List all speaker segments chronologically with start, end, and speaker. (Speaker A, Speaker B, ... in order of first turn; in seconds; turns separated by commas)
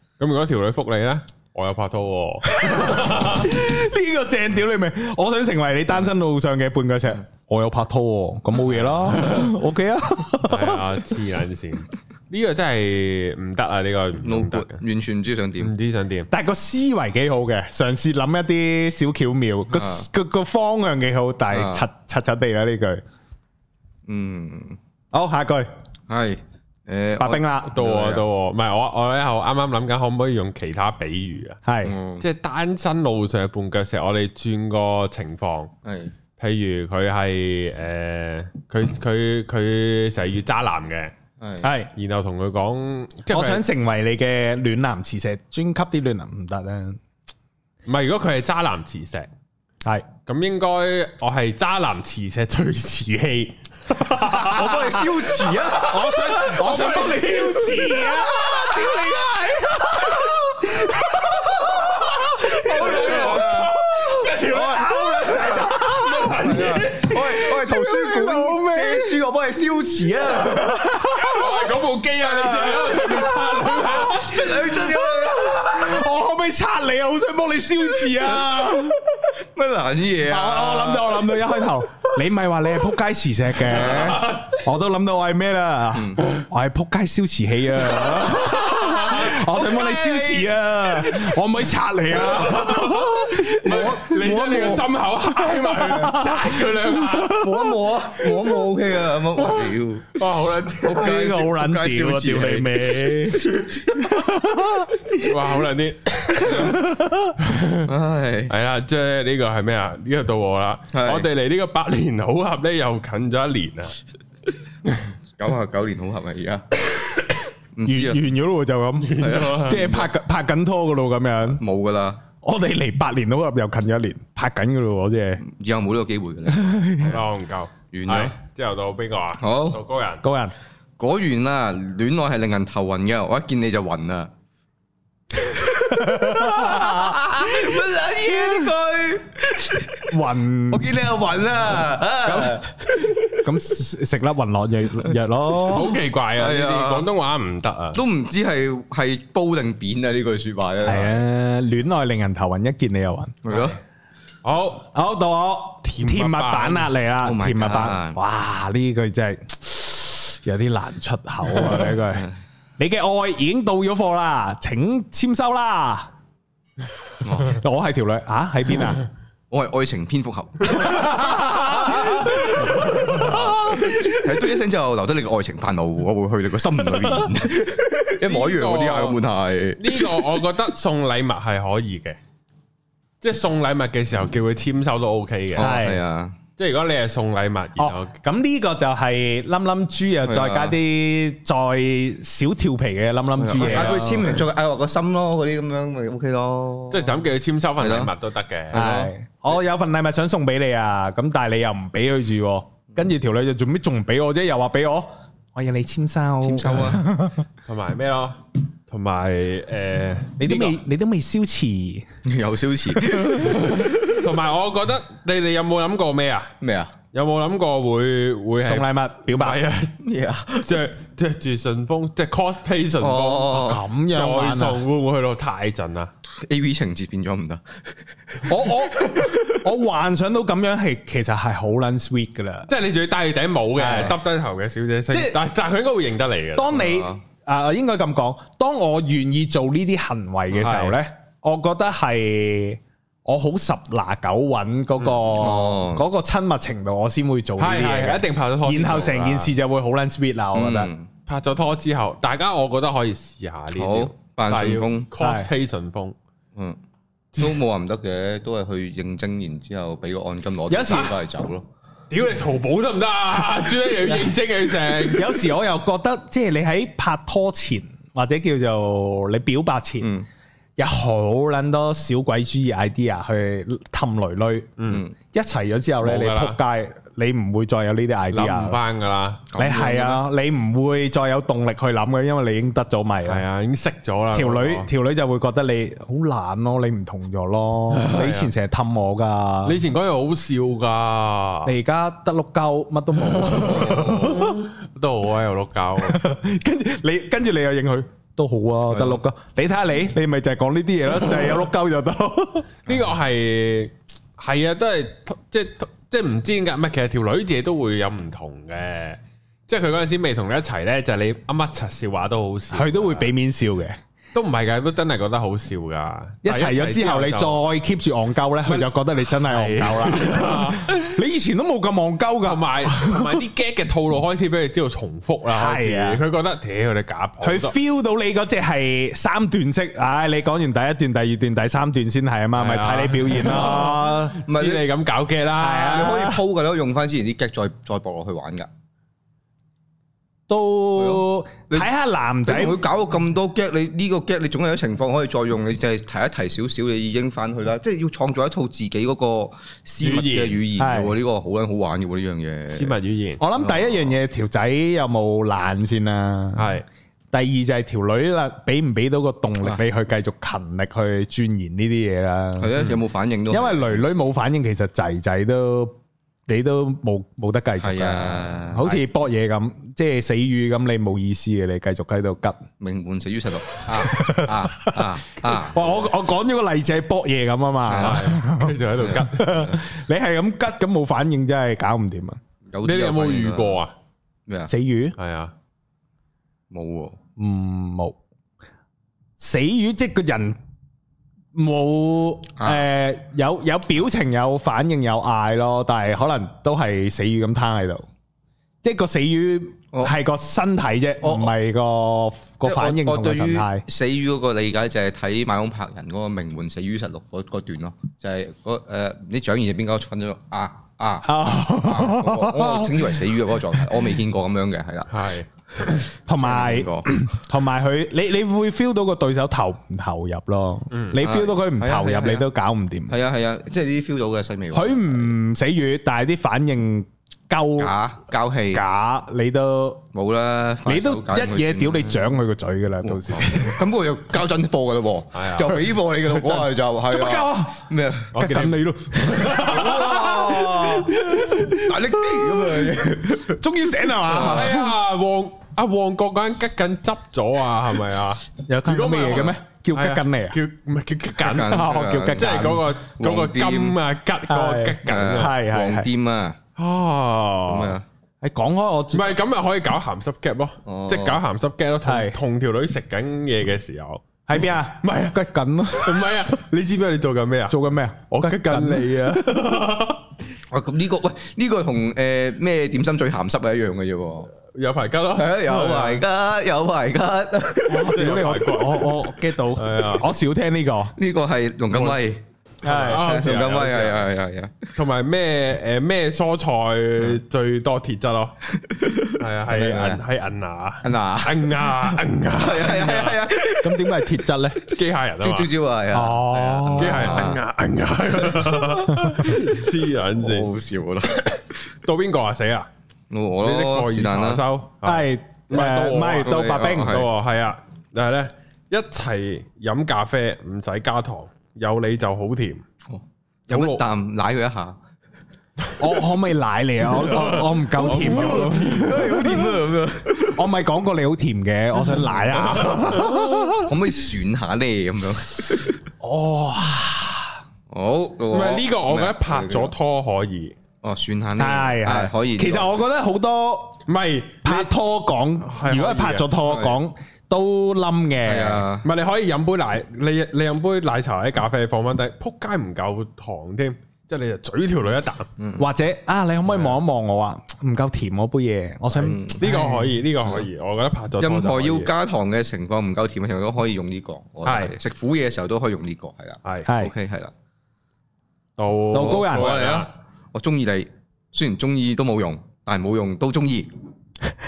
Speaker A: 0.2-3.5, Speaker B: 2.5-10.9, Speaker A: 8.6-9.6, Speaker A: 10.5-14.8, Speaker C: 14.2-15.7, Speaker A: 15.6-16.3, Speaker B: 16.3-23.0, Speaker C: 19.7-20.1, Speaker C: 21.5-21.9, Speaker C: 24.1-24.8, Speaker B: 25.1-25.7, Speaker C: 26.1-28.2, Speaker B: 27.2-27.7, Speaker A: 27.7-31.6, Speaker B: 31.6-31.9, Speaker C: 31.8-32.2, Speaker A: 32.2-35.7, Speaker C: 35.8-36.1, Speaker A: 36.4-41.1, Speaker C: 41.4-41.7, Speaker B: 41.6-41.9, Speaker A: 42.0-43.6, Speaker B: 43.3-47.0, Speaker A: 47.9-49.3, Speaker A: 50.3-58.9, Speaker B: 54.0-55.1, Speaker C: 54.4-56.0, Speaker B: 55.8-64.3, Speaker A: 61.6-67.2, Speaker C: 62.7-63.7, Speaker C: 64.4-65.7, Speaker B: 65.2-66.4, Speaker C: 66.3-71.0, Speaker B: 67.2-69.2, Speaker B: 70.0-71.6, Speaker A: 71.2-74.7, Speaker C: 72.3-76.0, Speaker B: 72.4-79.3, Speaker C: 78.1-78.8, Speaker C: 79.5-81.4, Speaker B: 80.2-94.0, Speaker C: 83.7-84.2, Speaker A: 83.7-84.6, Speaker C: 85.9-86.2, Speaker A: 88.4-89.5, Speaker C: 89.1-90.5, Speaker A: 92.1-97.5, Speaker C: 93.6-94.9, Speaker B: 95.5-97.8, Speaker C: 97.3-100.2, Speaker A: 100.1-101.1, Speaker C: 100.8-103.4, Speaker B: 100.9-105.3, Speaker A: 103.4-104.2, Speaker A: 105.2-106.8, Speaker B: 106.5-107.4, Speaker A: 107.4-107.9, Speaker C: 107.8-108.5, Speaker A: 108.5-114.0, Speaker C: 110.9-111.3, Speaker C: 115.4-116.9, Speaker C: 117.8-118.2, Speaker B: 117.9-121.6, Speaker A: 119.0-119.9, Speaker C: 119.2-120.1, Speaker C: 121.6-122.2, Speaker B: 122.4-125.4, Speaker C: 125.4-127.2, Speaker B: 126.5-127.2, Speaker A: 127.1-130.2, Speaker C: 127.9-128.3, Speaker C: 129.4-129.8, Speaker B: 130.2-130.5, Speaker C: 131.0-134.3, Speaker C: 135.4-140.1, Speaker B: 135.9-137.2, Speaker B: 140.1-141.0, Speaker C: 140.7-143.5, Speaker B: 142.2-142.7, Speaker B: 143.4-146.0, Speaker A: 145.7-148.0, Speaker C: 146.3-147.1, Speaker C: 147.9-151.2, Speaker B: 150.8-153.4, Speaker C: 153.4-153.8, Speaker A: 154.4-154.9, Speaker B: 154.9-162.3, Speaker A: 155.8-156.9, Speaker C: 157.2-158.2, Speaker B: 162.8-166.1, Speaker C: 167.2-167.6, Speaker B: 167.4-169.0, Speaker C: 169.5-180.3, Speaker B: 170.7-174.1, Speaker A: 178.2-179.2, Speaker A: 179.8-182.2, Speaker A: 183.2-185.8, Speaker C: 185.6-186.4, Speaker B: 185.6-186.0, Speaker A: 186.6-188.2, Speaker B: 187.8-194.2, Speaker C: 190.3-190.8, Speaker C: 193.4-197.2, Speaker A: 193.6-194.3, Speaker A: 196.9-198.9, Speaker C: 197.8-198.1, Speaker C: 198.7-199.1, Speaker B: 198.7-207.5, Speaker C: 206.4-207.0, Speaker A: 207.7-210.8, Speaker B: 210.4-212.1, Speaker C: 212.2-214.3, Speaker B: 213.0-213.7, Speaker A: 213.4-216.5, Speaker C: 216.6-216.9, Speaker A: 217.1-219.9, Speaker B: 218.6-219.6, Speaker C: 220.0-220.7, Speaker A: 220.6-226.1, Speaker C: 223.0-223.8, Speaker B: 223.5-224.8, Speaker C: 226.3-227.6, Speaker C: 228.3-229.6, Speaker B: 228.5-232.7, Speaker A: 232.7-236.8, Speaker B: 233.8-234.2, Speaker B: 235.1-235.4, Speaker B: 236.6-250.9, Speaker C: 236.7-237.2, Speaker A: 240.5-241.0, Speaker C: 245.4-246.1, Speaker A: 247.6-249.5, Speaker C: 250.5-251.1, Speaker A: 251.3-256.2, Speaker C: 253.8-255.1, Speaker B: 255.2-255.5, Speaker C: 257.4-261.7, Speaker B: 260.7-261.1, Speaker A: 262.1-265.4, Speaker B: 264.0-264.3, Speaker B: 264.9-270.1, Speaker C: 270.0-270.3, Speaker B: 270.8-274.7, Speaker A: 274.8-275.0, Speaker C: 274.9-275.1, Speaker B: 275.3-278.8, Speaker A: 276.0-276.6, Speaker A: 278.3-279.5, Speaker C: 279.5-280.2, Speaker B: 279.6-283.4, Speaker A: 283.2-284.9, Speaker B: 284.3-289.8, Speaker A: 287.9-288.5, Speaker A: 289.6-291.7, Speaker B: 291.6-294.6, Speaker A: 293.3-296.2, Speaker C: 293.6-294.5, Speaker B: 296.0-302.7, Speaker C: 298.9-299.2, Speaker A: 302.9-313.3, Speaker B: 312.7-314.0, Speaker A: 314.3-317.6, Speaker B: 316.4-323.4, Speaker A: 318.7-321.1, Speaker A: 322.4-327.8, Speaker B: 325.5-326.2, Speaker B: 327.4-334.4, Speaker A: 332.6-336.2, Speaker C: 334.5-334.9, Speaker B: 335.6-336.4, Speaker C: 335.9-338.7, Speaker B: 340.5-342.8, Speaker C: 341.0-341.9, Speaker C: 342.5-352.9, Speaker A: 350.0-350.6, Speaker B: 350.8-351.2, Speaker A: 352.7-353.4, Speaker B: 353.4-356.7, Speaker C: 353.6-354.2, Speaker A: 356.6-356.9, Speaker B: 357.3-362.8, Speaker C: 362.6-364.1, Speaker B: 363.5-366.0, Speaker B: 366.5-372.6, Speaker C: 367.8-369.0, Speaker C: 372.8-376.1, Speaker B: 373.9-382.4, Speaker C: 377.9-378.4, Speaker A: 377.9-379.6, Speaker C: 379.0-379.8, Speaker C: 382.7-383.8, Speaker A: 382.8-383.9, Speaker B: 384.7-385.2, Speaker A: 385.2-385.5, Speaker C: 386.7-387.2, Speaker B: 387.4-388.2, Speaker B: 389.4-390.6, Speaker B: 391.6-398.1, Speaker C: 392.6-392.9, Speaker B: 398.8-403.9, Speaker C: 401.2-401.5, Speaker C: 402.6-415.3, Speaker B: 411.2-414.0, Speaker A: 415.1-416.1, Speaker C: 415.9-417.2, Speaker B: 416.3-423.2, Speaker A: 420.9-421.2, Speaker C: 421.2-422.5, Speaker C: 423.1-425.4, Speaker B: 424.7-427.9, Speaker C: 427.8-428.8, Speaker B: 428.7-430.1, Speaker C: 430.1-432.4, Speaker B: 430.9-433.9, Speaker C: 433.0-438.3, Speaker A: 435.3-435.8, Speaker B: 436.2-437.8, Speaker A: 438.3-439.9, Speaker B: 438.4-444.9, Speaker C: 439.6-443.6, Speaker C: 444.2-444.8, Speaker A: 444.3-455.5, Speaker B: 448.7-450.6, Speaker C: 451.4-454.0, Speaker B: 451.5-452.8, Speaker B: 454.5-456.1, Speaker C: 455.0-456.6, Speaker A: 456.8-458.0, Speaker C: 457.7-458.1, Speaker B: 458.4-459.3, Speaker A: 459.1-465.4, Speaker C: 460.9-461.4, Speaker B: 462.1-462.4, Speaker B: 464.5-466.6, Speaker A: 465.9-470.2, Speaker B: 467.7-469.7, Speaker C: 470.7-474.5, Speaker A: 474.7-476.2, Speaker C: 475.4-478.2, Speaker B: 477.9-481.1, Speaker A: 478.1-480.3, Speaker C: 481.2-484.9, Speaker B: 482.8-483.2, Speaker A: 482.9-484.3, Speaker A: 485.0-488.6, Speaker C: 488.8-490.2, Speaker A: 489.4-493.4, Speaker C: 491.0-494.2, Speaker B: 493.8-494.9, Speaker A: 494.8-495.7, Speaker C: 495.4-497.6, Speaker B: 496.1-497.4, Speaker A: 497.0-500.7, Speaker C: 498.4-499.0, Speaker C: 500.3-501.5, Speaker A: 501.3-502.9, Speaker C: 503.3-504.6, Speaker A: 503.6-512.8, Speaker B: 505.0-507.2, Speaker C: 506.4-507.3, Speaker C: 513.1-515.0, Speaker A: 513.7-514.0, Speaker B: 516.0-519.8, Speaker A: 517.1-519.5, Speaker C: 518.0-520.6, Speaker B: 520.5-524.1, Speaker C: 522.1-526.0, Speaker B: 526.2-527.6, Speaker C: 527.9-529.9, Speaker A: 528.5-530.8, Speaker C: 531.0-533.0, Speaker B: 531.6-534.0, Speaker A: 534.1-534.9, Speaker B: 534.6-538.9, Speaker A: 535.6-536.5, Speaker C: 536.7-537.0, Speaker C: 538.5-539.1, Speaker A: 539.0-545.5, Speaker C: 545.6-545.9, Speaker B: 545.8-550.1, Speaker A: 546.7-547.0, Speaker C: 549.1-549.7, Speaker A: 549.6-552.1, Speaker C: 551.4-557.5, Speaker A: 554.6-555.0, Speaker A: 556.6-556.9, Speaker B: 556.9-557.1, Speaker A: 558.8-560.1, Speaker B: 559.1-559.8, Speaker C: 559.1-563.9